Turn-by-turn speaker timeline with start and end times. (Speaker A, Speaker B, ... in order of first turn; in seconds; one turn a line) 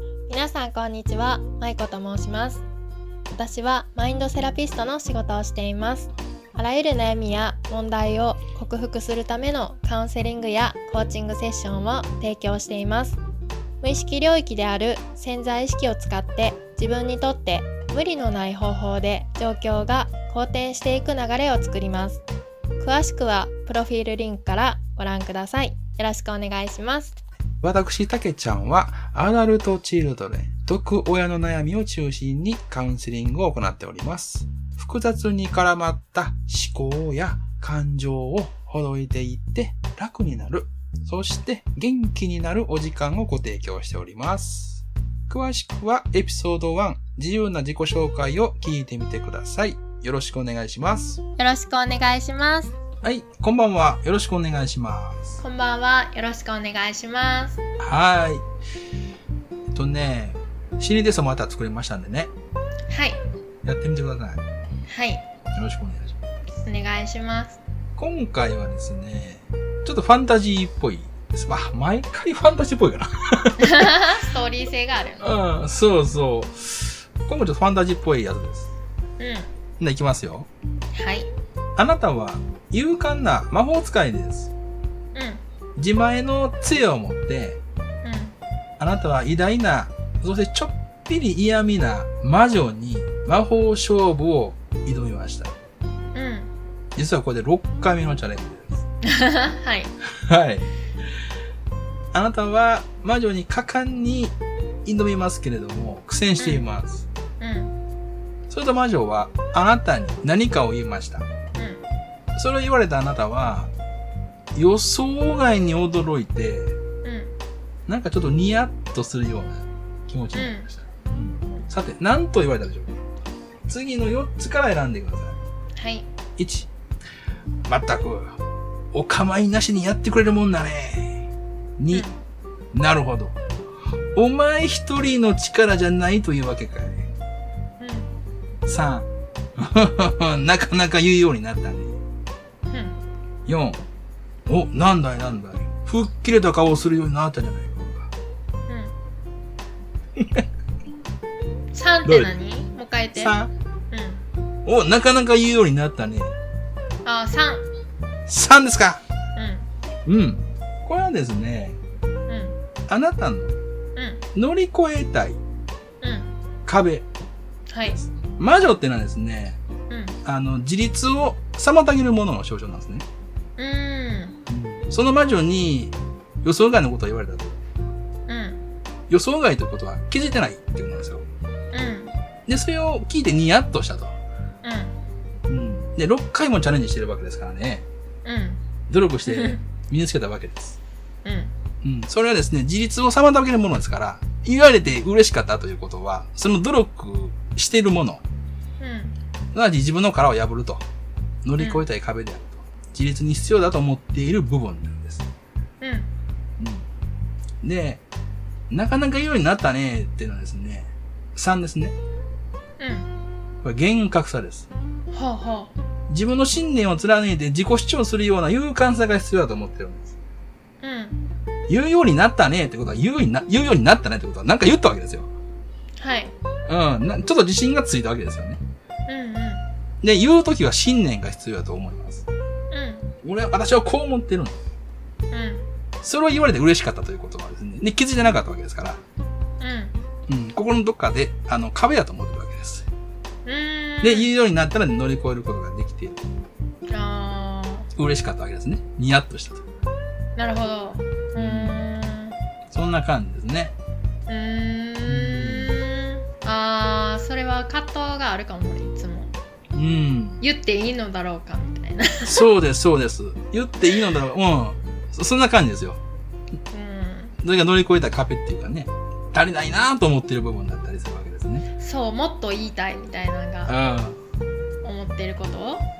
Speaker A: 0.3-2.6
Speaker A: 3.3-13.2
Speaker A: 13.8-22.2
Speaker A: 22.8-27.1
Speaker B: 27.6-51.2
Speaker A: 51.4-52.7
Speaker B: 53.0-55.4
Speaker A: 55.4-57.6
Speaker B: 57.8-58.4
Speaker B: 59.7-62.3
Speaker A: 62.9-63.2
Speaker B: 63.6-64.4
Speaker A: 64.8-65.2
Speaker B: 65.5-66.2
Speaker A: 66.6-67.6
Speaker B: 68.0-73.9
Speaker A: 73.6-75.3
Speaker B: 75.2-78.7
Speaker A: 79.2-79.5
Speaker B: 79.8-80.5
Speaker A: 80.9-81.3
Speaker B: 81.8-84.5
Speaker A: 85.1-85.4
Speaker B: 85.8-87.6
Speaker A: 88.0-88.3
Speaker B: 88.8-95.5
Speaker A: 96.1-96.5
Speaker B: 96.9-98.8
Speaker A: 99.0-99.9
Speaker B: 100.2-100.7
Speaker B: 102.1-107.0
Speaker A: 106.4-106.6
Speaker A: 107.4-107.7
Speaker B: 108.5-111.3
Speaker A: 111.5-111.8
Speaker B: 112.3-113.7
Speaker B: 114.5-116.8
Speaker A: 117.0-117.3
Speaker B: 117.9-123.0
Speaker A: 120.3-120.7
Speaker B: 123.7-125.4
Speaker A: 125.8-126.1
Speaker B: 126.4-126.7
Speaker B: 127.7-128.4
Speaker B: 128.9-132.1
Speaker A: 131.9-132.2
Speaker B: 132.7-133.4
Speaker B: 134.1-137.1
Speaker A: 137.8-138.1
Speaker B: 138.7-142.0
Speaker A: 142.7-143.0
Speaker B: 143.4-143.8
Speaker B: 144.5-148.1
Speaker A: 148.7-148.9
Speaker B: 150.2-150.4
Speaker A: 151.7-153.3
Speaker B: 152.0-152.3
Speaker B: 153.2-153.5
Speaker A: 153.9-154.2
Speaker B: 154.6-156.4
Speaker A: 157.0-157.7
Speaker B: 158.3-159.0
Speaker A: 159.3-159.7
Speaker B: 160.1-161.8
Speaker A: 162.3-162.6
Speaker B: 162.9-163.6
Speaker A: 163.9-164.2
Speaker B: 164.3-165.4
Speaker A: 166.0-166.3
Speaker B: 166.7-167.1
Speaker A: 167.7-168.0
Speaker B: 168.4-169.6
Speaker A: 169.9-170.2
Speaker B: 170.2-173.1
Speaker A: 173.6-174.4
Speaker B: 174.5-177.6
Speaker A: 178.3-178.6
Speaker B: 179.1-181.2
Speaker A: 181.7-182.1
Speaker B: 182.5-184.1
Speaker A: 184.6-185.0
Speaker B: 185.5-187.8
Speaker A: 188.2-188.6
Speaker B: 188.9-190.8
Speaker A: 189.3-189.6
Speaker A: 191.2-191.5
Speaker B: 191.8-198.2
Speaker A: 198.8-199.2
Speaker B: 199.5-200.8
Speaker B: 201.4-205.3
Speaker A: 201.6-201.8
Speaker A: 205.8-206.1
Speaker B: 206.6-206.8
Speaker B: 207.6-208.0
Speaker B: 208.7-211.9
Speaker A: 212.8-213.1
Speaker B: 213.6-214.7
Speaker A: 215.1-215.7
Speaker B: 216.1-220.1
Speaker A: 220.8-221.3
Speaker B: 221.7-225.3
Speaker A: 226.0-226.3
Speaker B: 226.7-228.6
Speaker A: 229.1-229.7
Speaker B: 230.0-232.2
Speaker A: 232.7-233.1
Speaker B: 233.2-234.6
Speaker A: 235.3-235.7
Speaker B: 236.0-239.0
Speaker A: 239.6-239.9
Speaker B: 240.3-242.8
Speaker A: 243.4-244.3
Speaker B: 244.0-246.2
Speaker A: 246.9-247.9
Speaker B: 247.9-249.6
Speaker A: 250.3-252.4
Speaker B: 251.3-251.8
Speaker B: 252.7-253.7
Speaker A: 254.3-259.3
Speaker B: 255.1-255.7
Speaker B: 259.7-260.4
Speaker A: 260.4-262.4
Speaker B: 262.2-266.0
Speaker A: 266.7-267.4
Speaker B: 267.4-271.7
Speaker A: 271.8-273.7
Speaker B: 273.6-274.2
Speaker A: 274.8-275.9